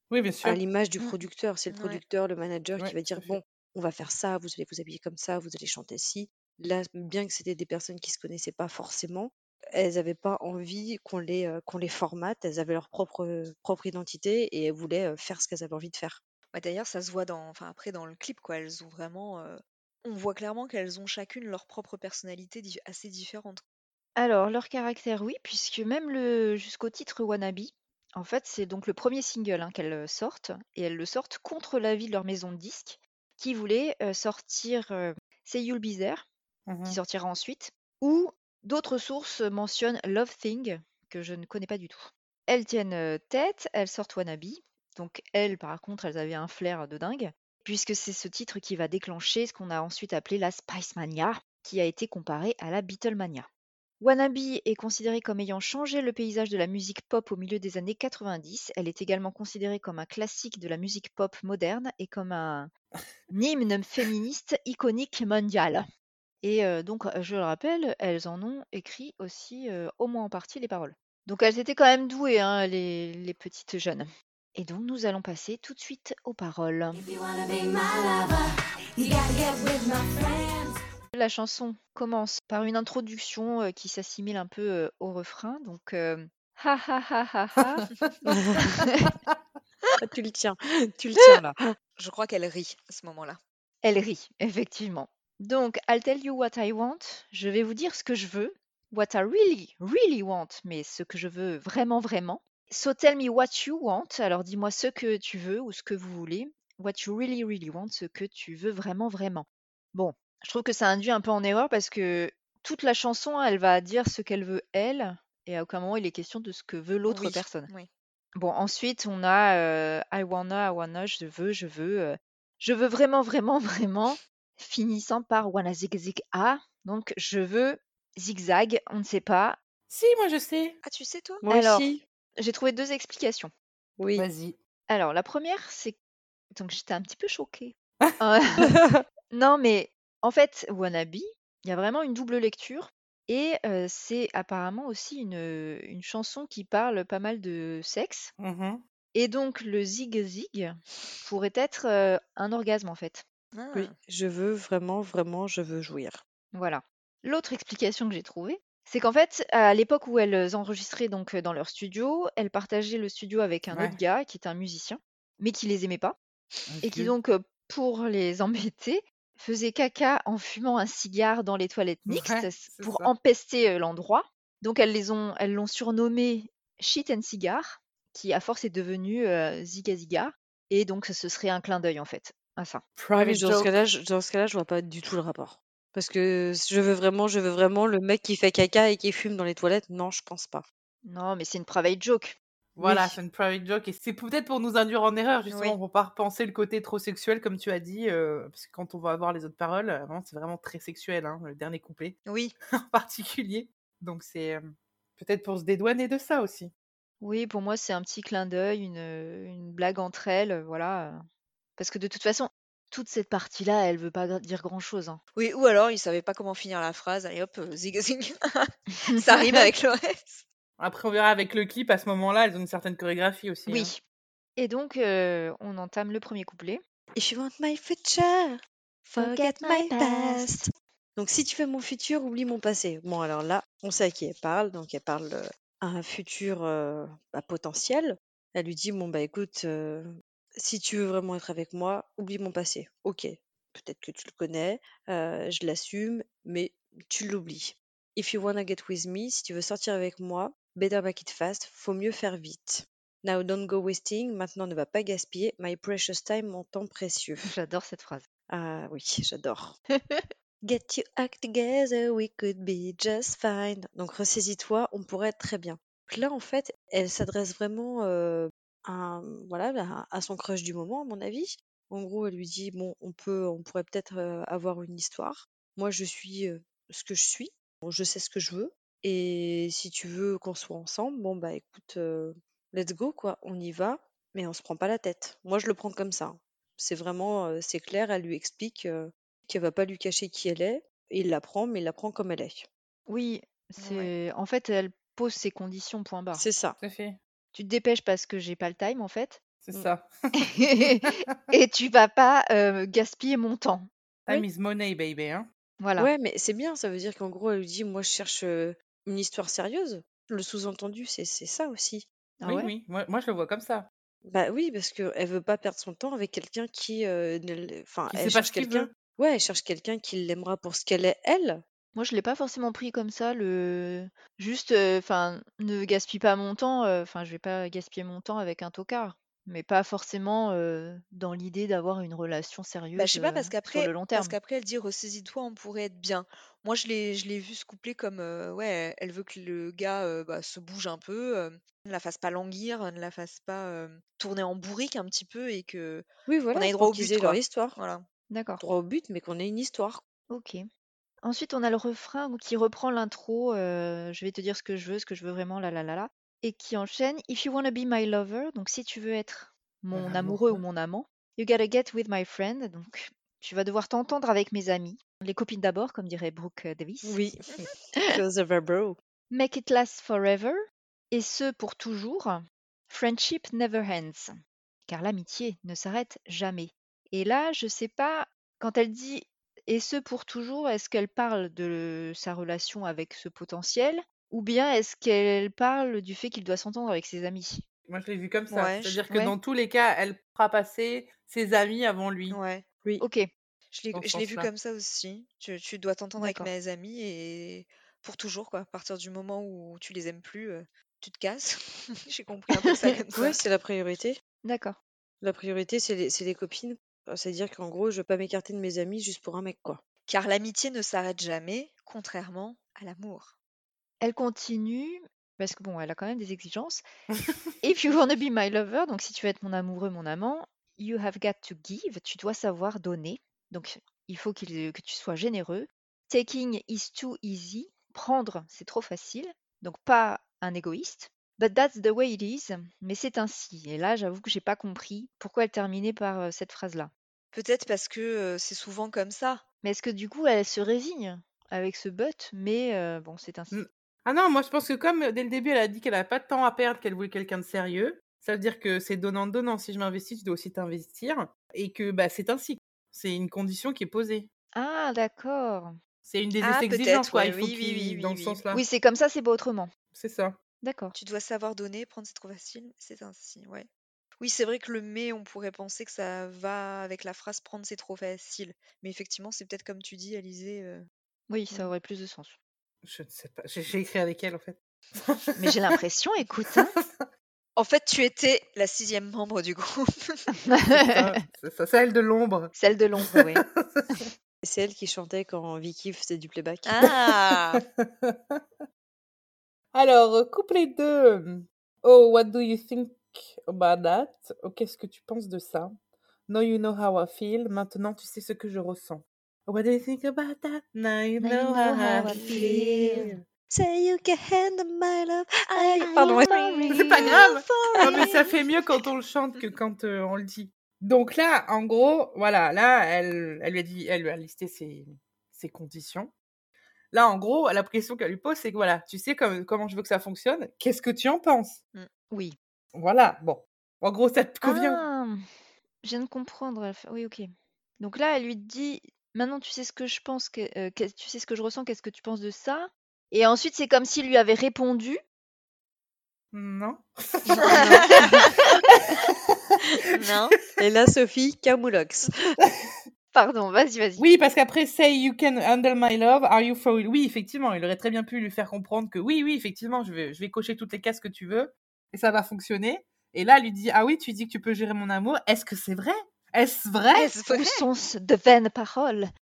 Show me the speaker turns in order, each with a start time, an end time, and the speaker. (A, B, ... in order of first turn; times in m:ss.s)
0:00.1-0:00.6 A
0:00.4-0:16.2 B
0:01.7-0:02.0 C
0:02.8-0:03.4 A
0:16.5-0:23.6 C
0:24.2-0:36.2 D
0:36.7-0:37.0 A
0:36.8-0:53.5 D
0:54.0-1:02.7 D
1:03.3-1:05.8 D
1:06.4-1:17.0 D
1:17.0-1:18.5 E
1:19.0-1:20.8 E
1:21.1-1:27.9 D
1:27.8-1:28.9 A
1:28.3-1:28.8 B
1:30.0-1:31.8 B
1:32.0-1:33.4 C
1:33.8-1:57.7 D
1:57.1-1:57.9 C
1:58.4-2:09.6 D
2:09.9-2:10.8 A
2:10.8-2:11.4 C
2:11.4-2:12.0 B
2:11.5-2:13.5 D
2:14.0-2:14.3 B
2:14.2-2:14.6 A
2:14.9-2:16.0 D
2:16.5-2:18.7 D
2:18.6-2:19.0 B
2:19.3-2:28.3 D
2:28.4-2:28.8 A
2:29.1-2:33.2 D
2:33.6-2:33.9 C
2:33.7-2:36.2 B
2:36.5-2:46.2 D
2:43.7-2:44.0 A
2:46.7-2:47.1 A
2:46.8-3:02.8 D
2:52.1-2:53.1 A
3:03.0-3:03.7 A
3:03.2-3:10.6 B
3:11.0-3:13.2 D
3:12.8-3:22.2 A
3:15.5-3:15.8 C
3:22.3-3:22.6 C
3:22.9-3:26.7 A
3:27.2-3:31.2 D
3:31.8-3:35.2 D
3:35.4-3:40.4 C
3:39.0-3:39.7 D
3:40.8-3:43.9 A
3:43.7-3:44.0 D
3:44.6-3:46.8 D
3:47.2-4:17.5 B
3:49.2-3:50.7 D
4:17.4-4:18.3 D
4:18.5-4:19.8 B
4:20.6-4:52.7 B
4:53.1-4:56.5 D
4:53.8-4:54.1 C
4:56.3-4:56.8 B
4:56.8-4:57.2 A
4:57.5-4:59.4 D
4:59.6-5:00.1 A
5:00.4-5:04.5 D
5:00.9-5:01.4 A
5:04.3-5:05.5 A
5:05.8-5:06.1 D
5:06.0-5:12.0 B
5:12.4-5:12.7 D
5:12.4-5:13.9 A
5:14.3-5:21.6 B
5:18.1-5:18.9 A
5:22.0-5:34.4 D
5:33.0-5:48.0 C
5:46.3-5:47.8 B
5:48.3-5:48.6 D
5:48.6-5:50.0 B
5:50.3-5:50.6 D
5:51.2-6:07.2 D
5:59.9-6:00.6 A
6:07.0-6:09.0 B
6:09.3-6:10.6 D
6:11.1-6:14.3 D
6:14.9-6:27.6 D
6:27.9-6:32.4 A
6:28.5-6:29.0 C
6:29.1-6:29.4 D
6:32.3-6:32.6 C
6:33.0-6:33.3 D
6:33.7-6:43.4 C
6:33.9-6:34.5 A
6:36.2-6:36.5 D
6:43.2-6:44.2 B
6:44.4-6:44.8 D
6:45.2-6:49.8 B
6:50.1-6:53.4 C
6:54.0-6:56.8 D
6:57.6-7:16.9 D
7:17.3-7:19.4 C
7:19.6-7:23.6 D
7:23.5-7:34.3 A
7:34.5-7:35.8 D
7:36.0-7:38.6 A
7:36.4-7:38.4 C
7:38.5-7:39.7 D
7:39.9-7:40.4 A
7:40.6-7:41.0 D
7:41.0-7:43.7 C
7:44.2-7:50.8 C
7:51.3-7:52.4 D
7:52.8-7:55.6 A
7:55.4-7:56.7 D
7:56.6-7:57.1 A
7:57.6-8:00.3 C
8:00.4-8:01.0 D
8:00.7-8:02.5 A
8:02.6-8:03.4 D
8:03.1-8:04.1 A
8:04.4-8:06.9 B
8:06.7-8:07.6 C
8:07.5-8:08.4 A
8:09.7-8:22.2 A
8:21.2-8:23.2 D
8:22.0-8:23.0 C
8:22.1-8:27.2 B
8:25.8-8:27.2 D
8:25.8-8:28.3 C
8:26.7-8:36.1 A
8:27.8-8:28.1 B
8:36.9-8:41.6 A
8:42.1-8:42.4 D
8:42.8-8:44.8 A
8:44.4-8:45.2 D
8:45.8-8:47.3 D
8:47.8-8:55.0 D
8:56.3-9:00.1 A
8:57.4-8:58.3 C
8:57.5-8:58.1 D
8:58.0-8:58.3 B
9:00.0-9:00.4 C
9:00.6-9:02.1 B
9:02.4-9:02.7 A
9:03.1-9:04.1 D
9:04.0-9:17.1 A
9:17.0-9:17.6 C
9:17.3-9:19.1 D